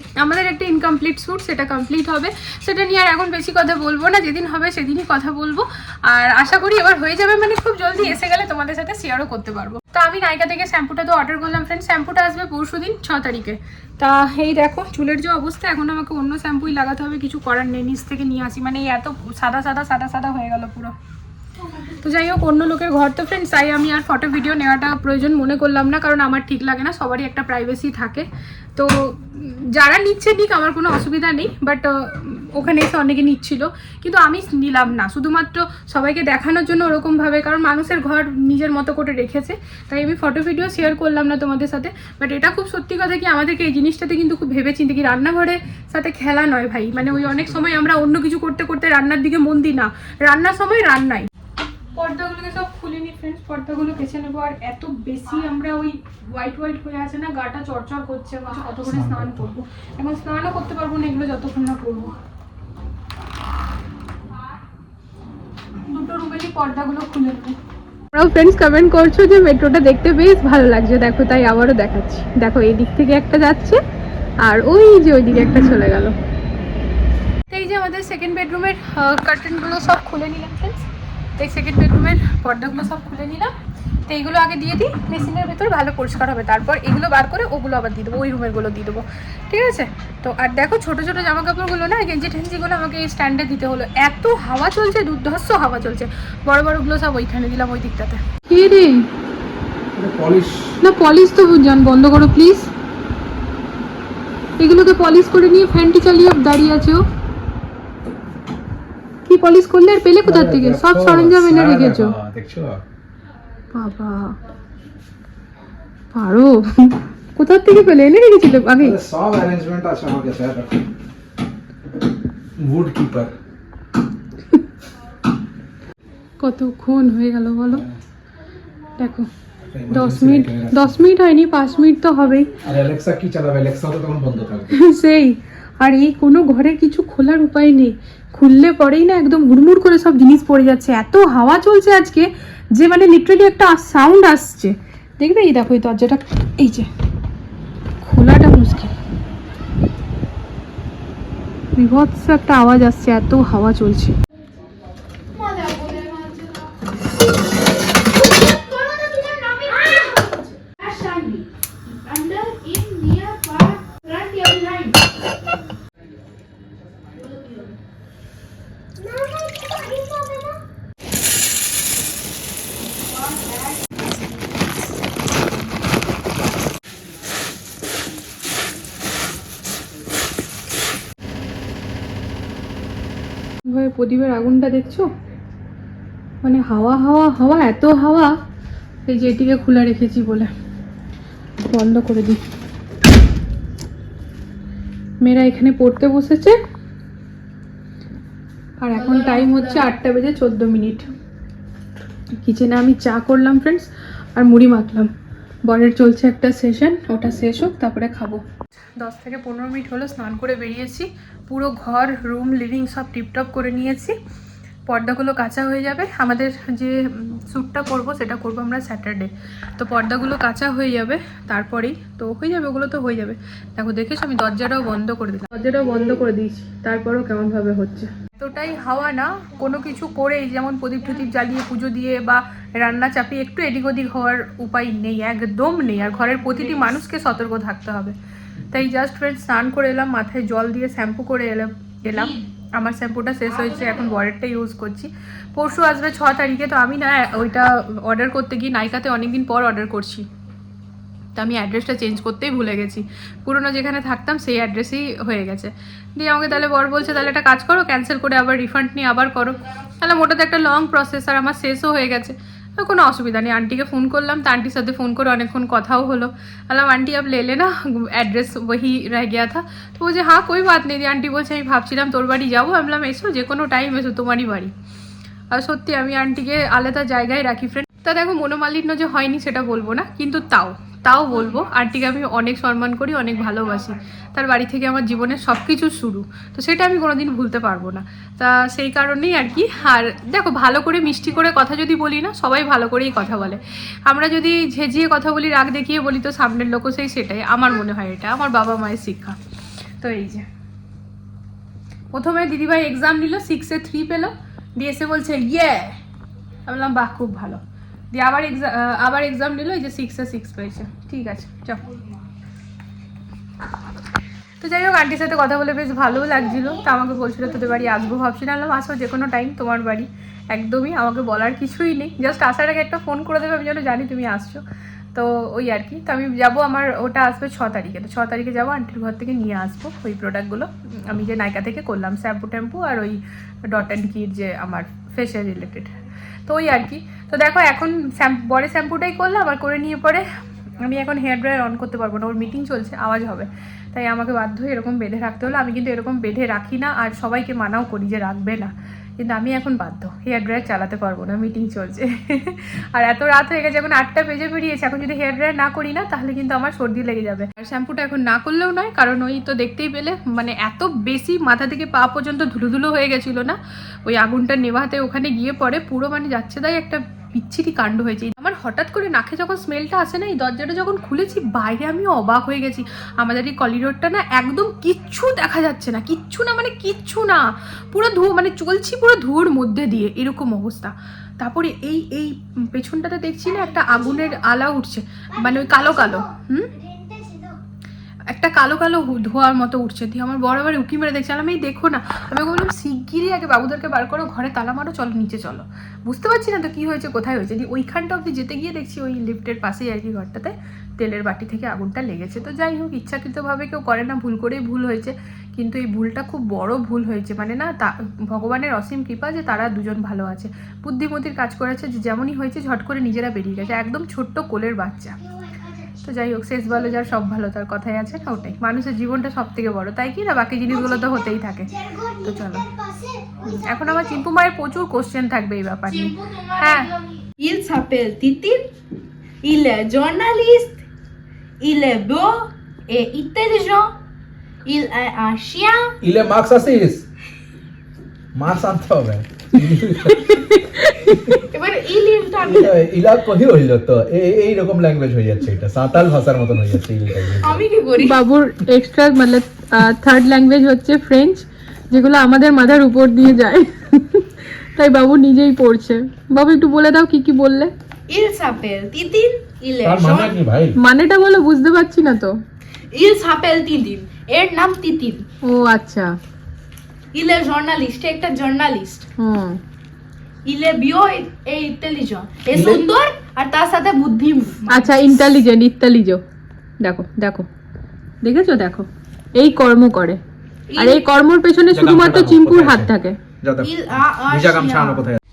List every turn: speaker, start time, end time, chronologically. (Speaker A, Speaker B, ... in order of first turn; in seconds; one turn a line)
Speaker A: 0.2-20.9
Speaker A: 21.9-51.3
Speaker B: 47.1-47.7
Speaker A: 51.9-62.1
Speaker B: 58.9-59.5
Speaker A: 65.8-67.6
Speaker A: 68.1-73.8
Speaker A: 74.4-76.2
Speaker A: 77.5-83.5
Speaker A: 84.1-99.1
Speaker B: 99.9-100.8
Speaker A: 100.8-102.7
Speaker A: 104.6-107.0
Speaker A: 109.2-112.2
Speaker B: 110.2-112.8
Speaker A: 113.7-114.4
Speaker A: 116.1-119.0
Speaker B: 118.8-120.9
Speaker B: 122.6-123.3
Speaker A: 126.4-127.8
Speaker B: 127.7-128.0
Speaker A: 129.0-129.3
Speaker B: 129.7-130.9
Speaker A: 129.9-132.5
Speaker B: 132.6-134.8
Speaker A: 134.7-146.9
Speaker A: 148.0-148.9
Speaker A: 151.7-154.2
Speaker C: 155.3-156.8
Speaker C: 158.2-165.1
Speaker C: 167.0-167.8
Speaker D: 169.0-170.6
Speaker C: 173.0-174.0
Speaker A: 183.7-185.1
Speaker A: 186.4-188.3
Speaker A: 189.1-190.5
Speaker A: 191.6-192.4
Speaker A: 195.2-196.6
Speaker A: 198.8-201.1
Speaker C: 198.9-199.9
Speaker A: 202.4-205.1
Speaker A: 205.7-208.4
Speaker A: 209.0-214.2
Speaker A: 214.9-238.1
Speaker A: 238.7-250.3
Speaker C: 242.1-242.4
Speaker C: 243.5-244.2
Speaker A: 251.3-274.7
Speaker A: 275.5-299.4
Speaker A: 300.0-300.5
Speaker A: 302.1-306.0
Speaker A: 306.6-307.6
Speaker A: 308.1-312.0
Speaker A: 314.6-335.9
Speaker A: 336.5-340.2
Speaker A: 340.8-386.7
Speaker D: 385.5-386.2
Speaker D: 386.7-387.6
Speaker A: 388.3-415.2
Speaker D: 415.3-415.9
Speaker A: 416.0-422.7
Speaker D: 421.8-423.9
Speaker A: 423.4-426.9
Speaker C: 425.9-428.7
Speaker C: 429.4-430.8
Speaker C: 431.6-433.9
Speaker C: 434.6-435.9
Speaker B: 436.0-437.0
Speaker B: 438.3-440.4
Speaker A: 440.0-441.4
Speaker B: 441.0-441.4
Speaker C: 441.5-442.7
Speaker B: 442.4-447.6
Speaker C: 447.3-448.2
Speaker A: 448.0-457.7
Speaker C: 458.1-460.4
Speaker B: 459.8-460.8
Speaker A: 460.7-462.4
Speaker C: 462.9-465.2
Speaker A: 465.4-466.1
Speaker C: 467.1-469.1
Speaker A: 469.2-469.6
Speaker C: 470.4-475.3
Speaker B: 472.5-473.0
Speaker A: 474.7-476.2
Speaker A: 476.8-477.5
Speaker A: 478.2-480.2
Speaker C: 480.7-481.1
Speaker A: 480.8-483.2
Speaker B: 481.7-485.2
Speaker C: 483.6-485.1